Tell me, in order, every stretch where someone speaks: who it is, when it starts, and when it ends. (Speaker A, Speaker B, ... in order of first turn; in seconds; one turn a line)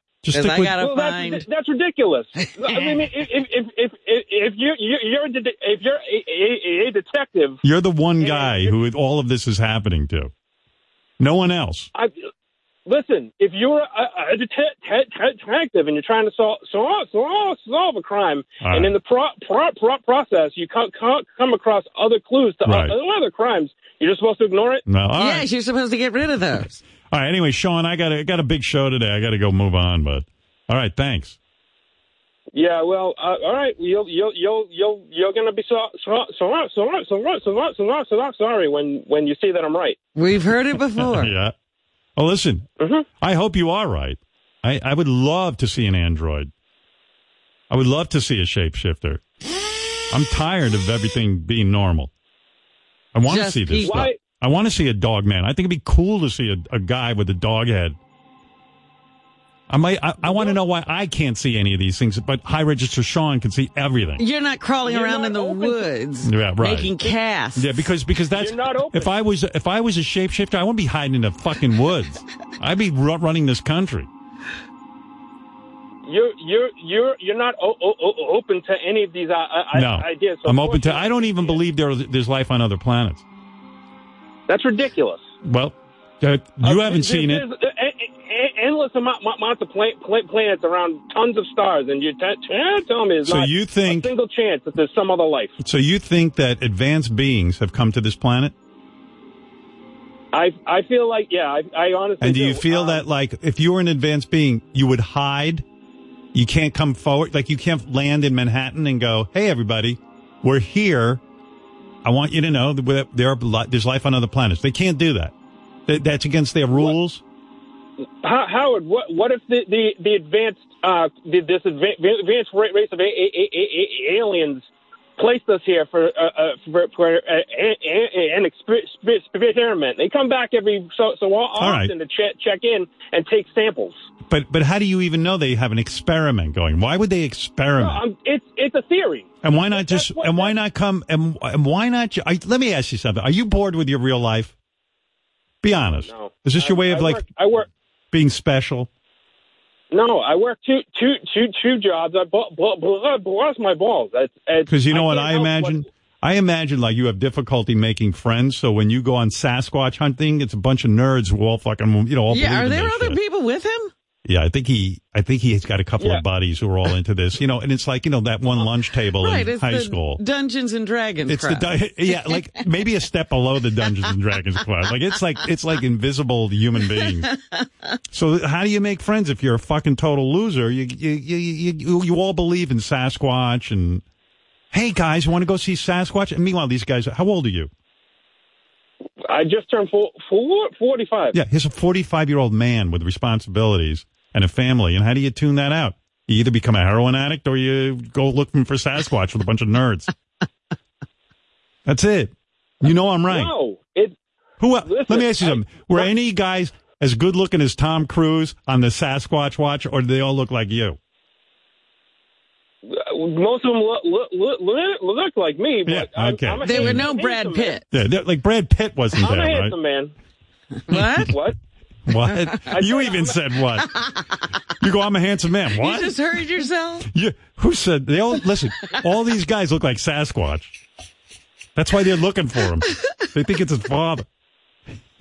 Speaker A: 0.2-0.8
Speaker B: 0.3-1.4
Speaker C: 0.8-7.6
Speaker A: 7.6-10.3
Speaker C: 8.2-8.7
Speaker A: 11.2-11.9
Speaker C: 12.8-24.8
Speaker A: 18.6-18.9
Speaker A: 22.6-22.9
Speaker A: 24.9-25.4
Speaker B: 25.2-26.8
Speaker A: 27.1-31.4
Speaker C: 32.5-40.0
Speaker B: 40.1-41.3
Speaker A: 41.0-41.5
Speaker A: 42.1-42.7
Speaker C: 42.8-43.0
Speaker A: 43.2-46.5
Speaker A: 47.7-49.2
Speaker A: 50.1-52.1
Speaker A: 53.1-58.0
Speaker B: 53.3-54.1
Speaker C: 53.8-54.2
Speaker A: 59.7-64.2
Speaker C: 60.2-60.6
Speaker B: 64.2-67.8
Speaker C: 64.8-65.9
Speaker A: 66.2-74.1
Speaker C: 68.3-69.1
Speaker C: 76.0-81.6
Speaker A: 79.7-83.2
Speaker C: 84.5-85.2
Speaker A: 85.4-87.4
Speaker C: 86.6-95.5
Speaker A: 93.2-94.1
Speaker A: 95.6-98.5
Speaker C: 100.3-103.0
Speaker A: 102.2-105.6
Speaker A: 106.3-111.2
Speaker A: 112.0-115.3
Speaker A: 115.9-117.2
Speaker C: 118.2-134.0
Speaker A: 131.6-131.9
Speaker A: 134.3-138.0
Speaker C: 137.8-140.5
Speaker A: 139.4-144.5
Speaker A: 145.6-147.3
Speaker C: 146.0-147.7
Speaker A: 148.1-148.9
Speaker C: 149.9-155.8
Speaker A: 154.7-163.2
Speaker B: 162.3-163.9
Speaker A: 164.2-170.2
Speaker C: 166.0-166.2
Speaker B: 169.2-172.6
Speaker A: 171.3-177.3
Speaker A: 178.1-184.0
Speaker A: 184.7-187.7
Speaker C: 189.2-191.4
Speaker A: 191.3-200.1
Speaker A: 201.8-203.5
Speaker C: 203.3-204.1
Speaker A: 204.6-211.0
Speaker C: 204.8-206.1
Speaker C: 212.8-217.8
Speaker A: 215.9-217.1
Speaker B: 216.6-217.9
Speaker A: 217.9-219.7
Speaker C: 219.2-220.1
Speaker B: 220.9-221.4
Speaker A: 220.9-221.3
Speaker C: 221.3-221.6
Speaker A: 222.1-224.0
Speaker C: 222.7-223.4
Speaker A: 224.8-226.2
Speaker B: 225.8-227.1
Speaker A: 227.1-230.8
Speaker A: 231.7-234.2